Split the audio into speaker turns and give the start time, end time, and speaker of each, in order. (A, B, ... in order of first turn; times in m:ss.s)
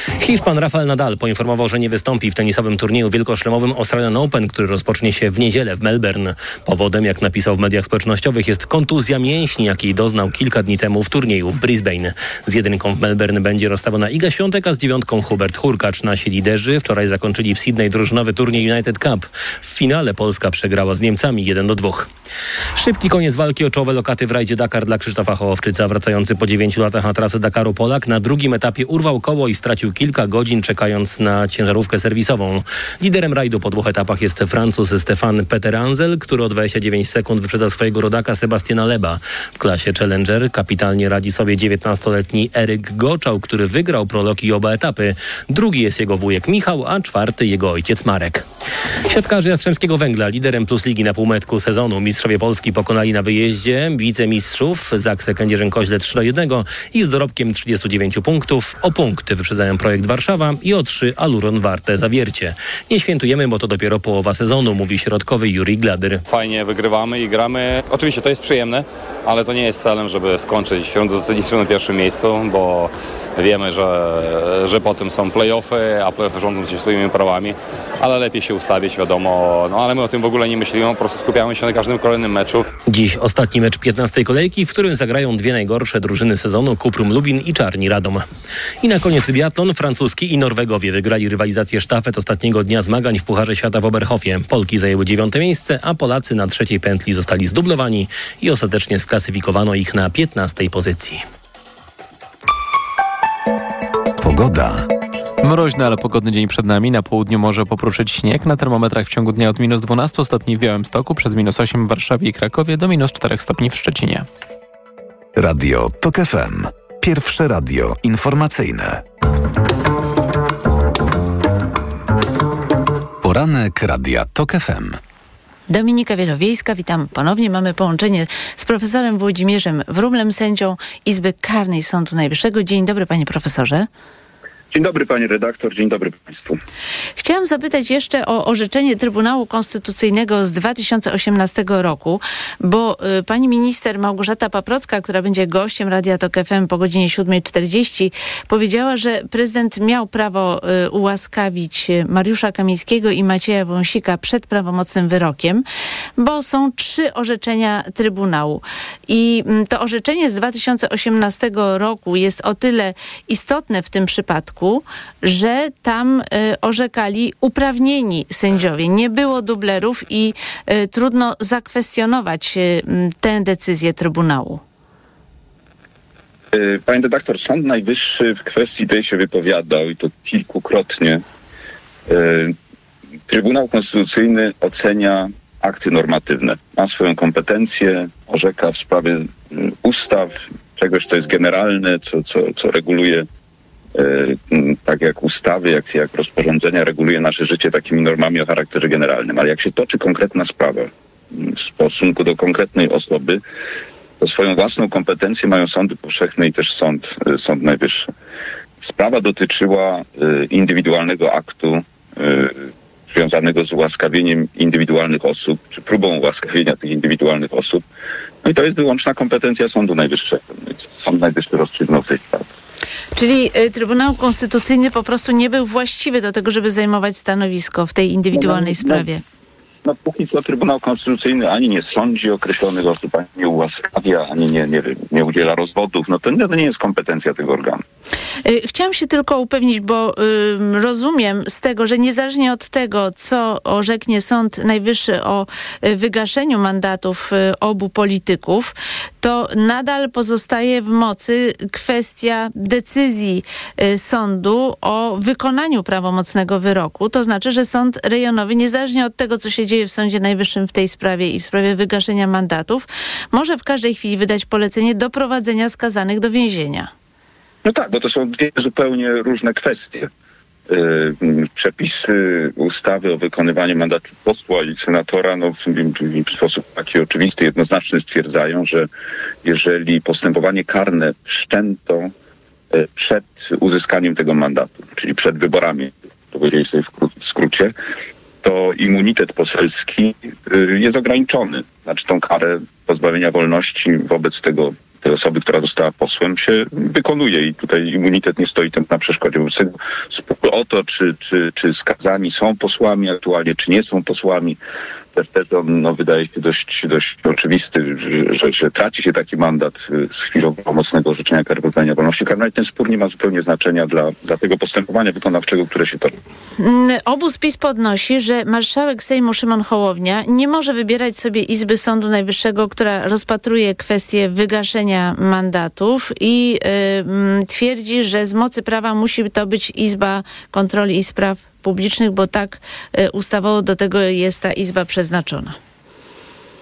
0:00.2-0:22.1 A
0:22.8-0:48.4 A
0:49.1-1:06.2 A
1:06.3-1:22.7 B
1:22.9-1:28.2 A
1:28.8-1:41.2 A
1:44.2-1:44.9 C
1:45.4-1:54.3 D
1:55.4-1:59.0 C
2:03.2-2:05.0 C
2:05.7-2:13.9 E
2:14.7-2:16.6 F
2:17.2-2:35.6 E
2:36.2-2:54.6 E
2:56.5-3:01.2 F
3:02.1-3:02.6 F
3:03.3-3:13.3 F
3:14.0-3:23.4 F
3:24.2-3:28.1 F
3:28.8-3:37.8 F
3:38.4-3:42.5 F
3:43.2-3:49.2 E
3:48.3-3:49.0 F
3:49.8-3:57.8 F
3:58.4-4:26.9 E
4:27.6-4:30.1 F
4:30.7-4:38.9 F
4:39.4-4:42.1 F
4:42.7-4:47.7 F
4:48.4-5:04.6 F
5:05.2-5:16.2 F
5:16.6-5:35.6 E